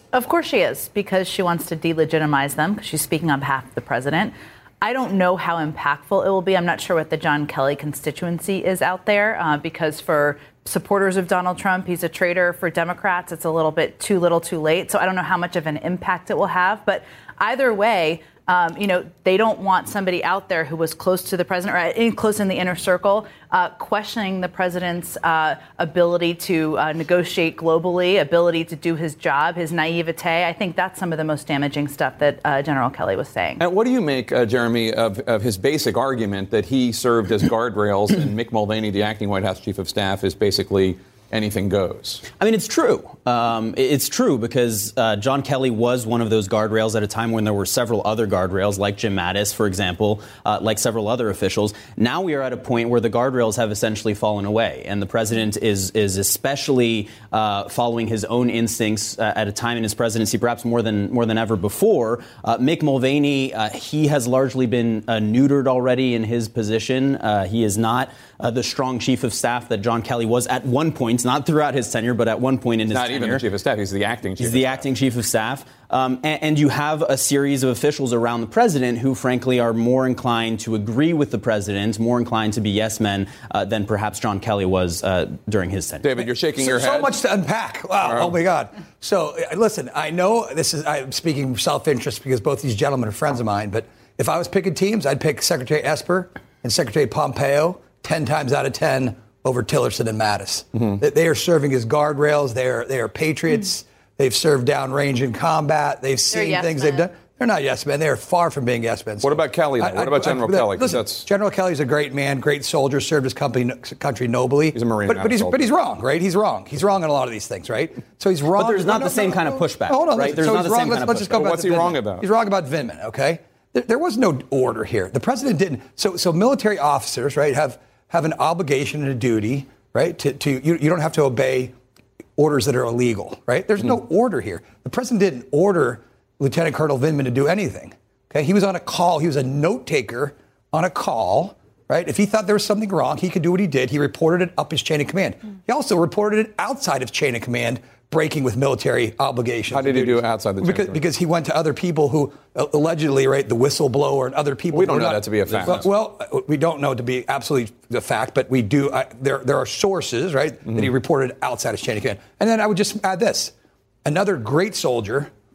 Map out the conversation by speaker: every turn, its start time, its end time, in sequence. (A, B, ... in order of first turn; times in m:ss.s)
0:00.1-0:33.6 A
0:33.6-0:42.2 B
0:42.4-1:13.4 C
1:12.9-1:14.8 B
1:14.4-1:26.1 C
1:26.0-1:27.1 B
1:26.6-2:11.7 D
1:28.0-1:28.3 B
1:49.2-1:51.3 B
1:54.7-1:55.7 B
1:58.6-2:01.5 C
2:01.3-2:02.2 B
2:12.4-2:43.5 D
2:29.7-2:31.0 B
2:34.7-2:35.9 B
2:40.6-2:40.9 B
2:44.0-2:45.3 D